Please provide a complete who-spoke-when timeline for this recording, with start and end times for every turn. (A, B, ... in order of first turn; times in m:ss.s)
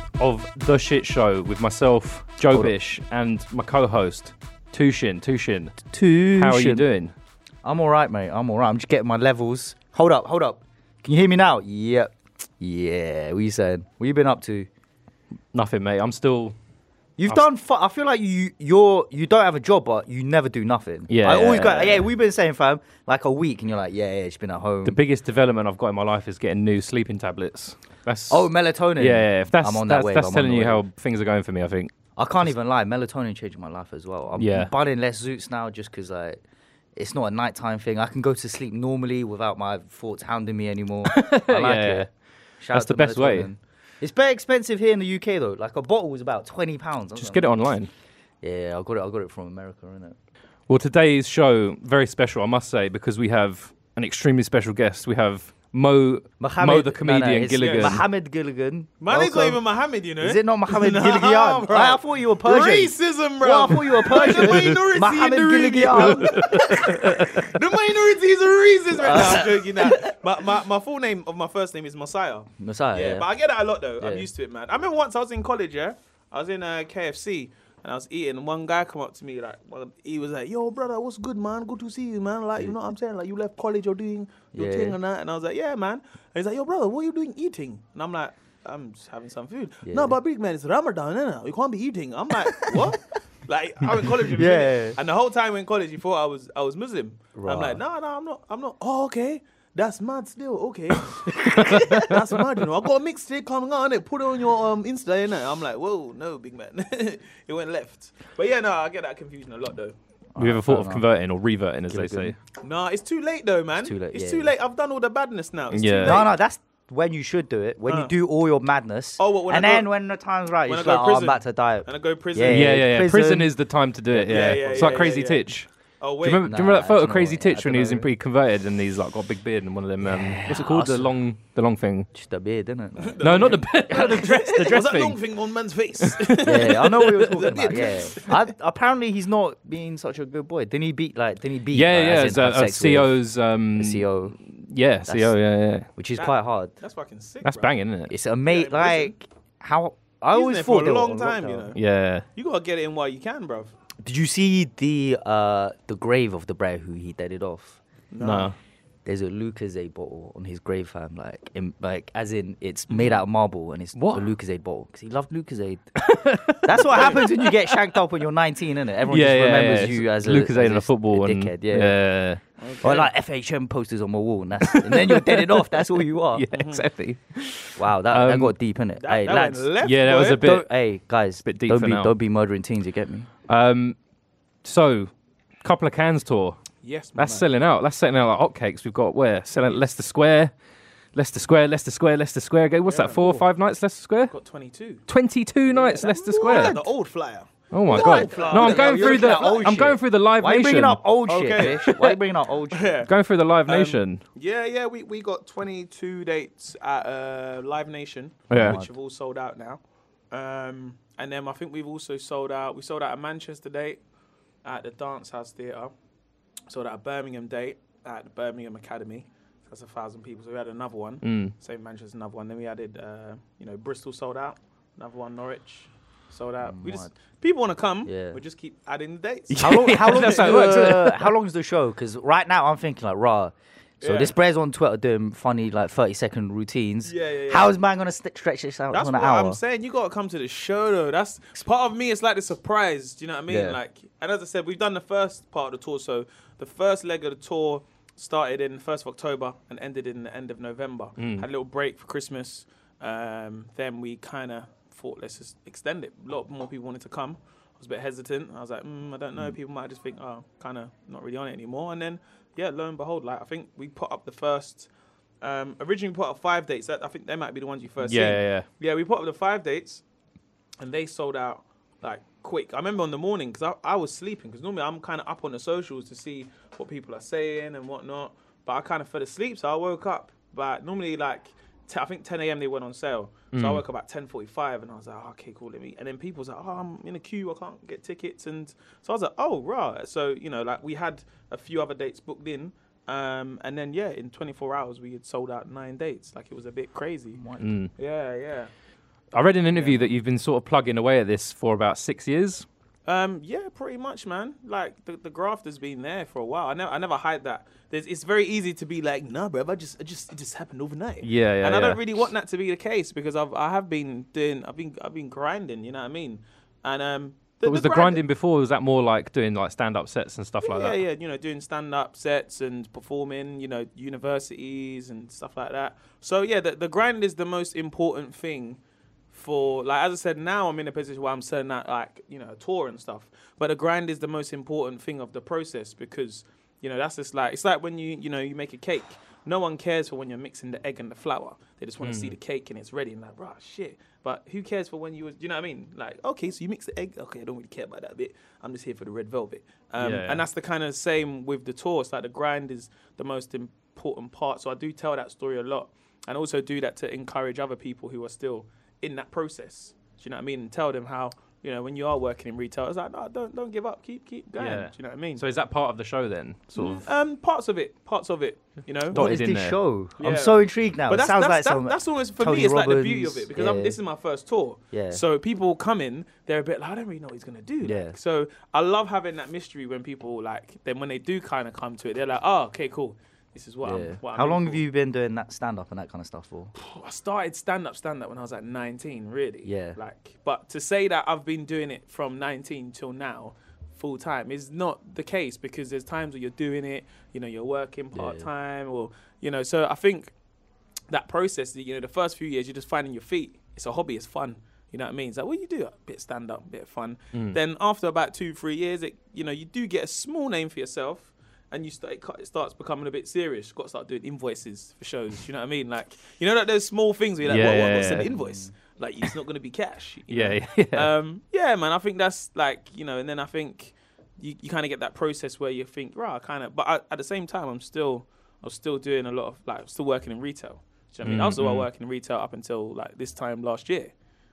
0:00.2-0:05.8 A
0:05.9-0:06.8 B
0:06.3-0:07.1 A
0:07.6-0:14.7 B
0:15.5-0:16.5 A
0:17.2-0:25.0 B
0:21.1-0:22.1 A
0:24.8-0:31.9 A
0:28.3-0:30.8 B
0:32.2-0:36.4 B
0:34.4-0:34.7 A
0:37.0-0:42.1 B
0:41.0-0:42.1 A
0:42.6-0:47.4 B
0:42.7-0:43.5 A
0:47.2-0:47.9 A
0:48.4-0:50.2 B
0:50.7-0:58.0 A
0:56.4-0:59.6 B
0:57.6-0:58.0 C
0:59.0-1:49.9 C
1:00.2-1:07.2 B
1:05.9-1:07.3 A
1:08.9-1:10.1 B
1:12.6-1:13.3 B
1:14.0-1:14.3 B
1:24.5-1:25.0 B
1:29.8-1:30.2 B
1:34.2-1:35.0 B
1:37.4-1:37.8 B
1:41.4-1:42.0 A
1:41.6-1:41.8 B
1:50.3-1:51.0 B
1:50.4-1:52.4 A
1:51.9-1:52.3 B
1:52.6-1:56.3 C
1:53.8-1:54.5 B
1:55.7-1:56.2 A
1:56.0-2:03.6 B
1:57.8-1:58.1 C
1:59.2-1:59.9 C
2:00.6-2:02.8 C
2:02.5-2:05.7 A
2:04.1-2:05.2 B
2:04.2-2:06.5 C
2:06.2-2:12.1 A
2:06.4-2:08.1 B
2:10.0-2:11.1 B
2:12.1-2:14.7 B
2:13.0-2:18.4 C
2:13.2-2:15.2 A
2:16.0-2:16.4 A
2:16.4-2:23.2 B
2:21.7-2:25.9 A
2:23.8-2:24.4 B
2:25.0-2:25.4 B
2:25.9-2:26.7 B
2:26.2-2:27.7 C
2:27.4-2:28.1 A
2:28.1-2:31.7 B
2:28.5-2:29.1 C
2:30.3-2:31.8 C
2:31.7-2:32.2 A
2:32.3-2:33.7 C
2:34.0-2:37.8 B
2:38.1-2:38.5 C
2:38.2-2:38.5 A
2:39.0-2:46.0 B
2:43.9-2:44.3 A
2:46.0-2:47.8 A
2:46.6-2:52.0 B
2:49.1-2:52.4 A
2:52.6-2:53.1 C
2:52.8-2:56.4 B
2:54.7-2:58.5 A
2:56.5-2:56.8 C
2:57.8-3:03.3 B
2:59.0-3:00.5 C
2:59.8-3:00.7 A
3:01.4-3:02.1 A
3:03.5-3:04.0 A
3:04.6-3:05.1 A
3:05.6-3:06.6 A
3:06.8-3:07.4 C
3:07.2-3:10.5 A
3:11.1-3:14.3 A
3:12.9-3:13.4 C
3:14.3-3:15.0 C
3:15.1-3:16.8 A
3:15.7-3:19.9 C
3:16.4-3:16.8 B
3:17.7-3:21.0 A
3:17.8-3:22.9 B
3:21.3-3:22.0 C
3:21.6-3:22.2 A
3:22.7-3:23.1 C
3:23.0-3:24.2 A
3:23.7-3:34.0 C
3:28.5-3:28.8 A
3:28.5-3:28.9 B
3:34.6-3:35.9 C
3:36.7-3:50.7 C
3:41.2-3:41.5 A
3:46.6-3:47.1 B
3:48.0-3:48.4 B
3:49.5-3:51.3 A
3:49.6-3:59.6 B
3:54.0-3:54.3 C
3:57.0-3:57.7 C
3:58.9-4:24.9 C
4:03.5-4:03.8 B
4:11.2-4:11.4 A
4:25.4-4:30.0 C
4:28.0-4:28.7 A
4:30.8-4:57.4 C
4:43.5-4:43.8 A
4:57.4-4:57.7 B
4:57.6-4:57.9 A
4:57.9-4:58.7 C
4:59.3-5:02.6 A
4:59.7-5:00.0 C
5:03.0-5:18.2 C
5:11.2-5:12.0 A
5:17.6-5:21.0 A
5:20.6-5:28.8 C
5:29.3-6:05.4 C
5:42.0-5:42.4 A
5:50.0-5:50.4 A
6:04.6-6:07.0 A
6:06.7-6:09.3 C
6:09.1-6:14.0 B
6:09.1-6:09.8 A
6:10.2-6:24.8 C
6:14.9-6:15.2 B
6:17.8-6:18.2 B
6:23.8-6:26.7 B
6:26.7-6:40.3 C
6:29.6-6:30.0 B
6:38.1-6:38.5 B
6:41.1-7:14.1 C
6:57.4-6:58.3 A
7:00.3-7:01.1 A
7:11.2-7:11.9 A